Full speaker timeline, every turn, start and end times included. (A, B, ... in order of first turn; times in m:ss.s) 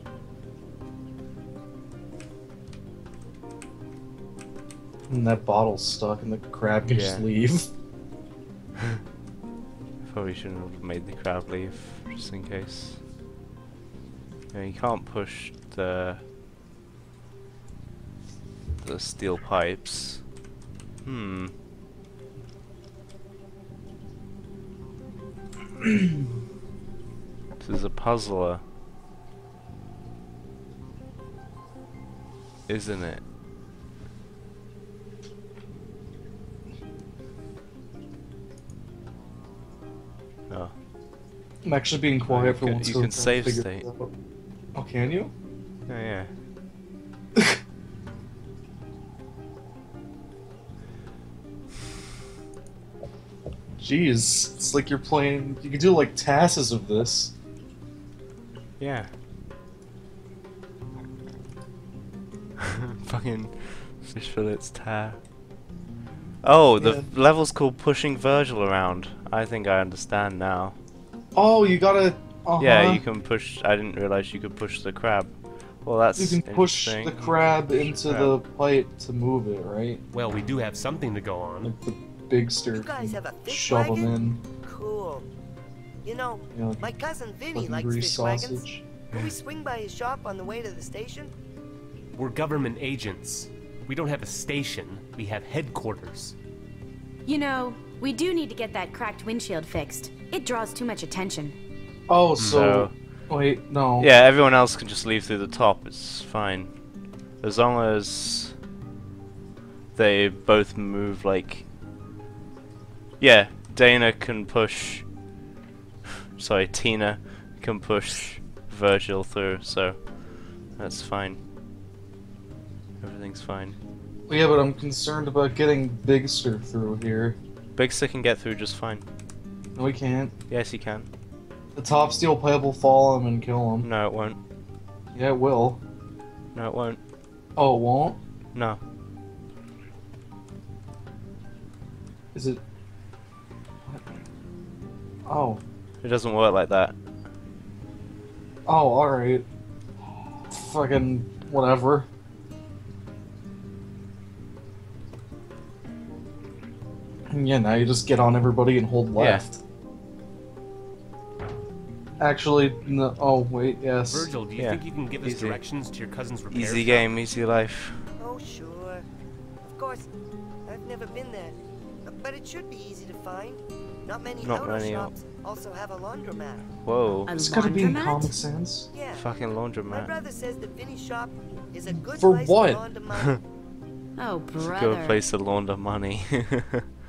0:05.1-0:07.7 A
0:06.9-0:07.3 B
0:10.0-0:13.0 B
0:14.5-0:16.2 B
0:18.8-0:20.2 B
0:21.0-0:21.5 B
0:27.6-0:28.6 B
0:32.7-0:33.2 B
0:40.5-0:40.7 B
0:41.6-0:44.1 A
0:42.3-0:43.8 B
0:44.7-0:45.3 A
0:45.9-0:46.3 B
0:53.8-0:57.3 A
0:58.8-0:59.1 B
1:02.8-1:05.2 B
1:06.4-1:10.8 B
1:06.8-1:07.1 A
1:11.3-1:13.0 A
1:12.6-1:18.4 B
1:16.2-1:20.0 A
1:20.1-1:21.7 C
1:21.6-1:24.4 A
1:22.7-1:25.3 D
1:26.0-1:31.3 D
1:26.5-1:26.9 A
1:27.5-1:28.8 A
1:32.1-1:36.3 C
1:37.2-1:41.6 E
1:42.1-1:44.1 A
1:42.4-1:42.6 C
1:42.5-1:42.9 B
1:44.0-1:46.8 B
1:47.4-1:48.5 B
1:49.9-1:51.6 B
1:53.2-1:55.0 B
1:56.4-2:01.4 B
2:03.0-2:03.8 B
2:04.3-2:07.4 A
2:07.7-2:09.0 B
2:09.7-2:10.3 A
2:10.5-2:11.1 B
2:11.7-2:13.9 A
2:13.8-2:14.4 B
2:15.1-2:15.8 A
2:16.5-2:17.0 B
2:17.6-2:18.2 A
2:18.5-2:18.8 B
2:22.3-2:22.6 A
2:25.2-2:25.6 A
2:26.0-2:27.0 B
2:28.6-2:29.4 A
2:30.5-2:32.1 A
2:37.3-2:39.6 A
2:39.2-2:39.4 B
2:42.2-2:44.3 A
2:44.1-2:47.1 C
2:44.6-2:45.6 B
2:46.5-2:48.1 B
2:48.2-2:49.0 D
2:49.6-2:50.1 D
2:50.6-2:56.7 D
2:54.4-2:55.1 B
2:56.8-2:57.4 B
2:57.2-2:58.3 E
2:57.4-2:58.9 A
2:58.9-3:03.4 D
2:59.1-3:00.1 B
3:01.9-3:02.8 A
3:04.2-3:05.2 E
3:04.6-3:06.8 B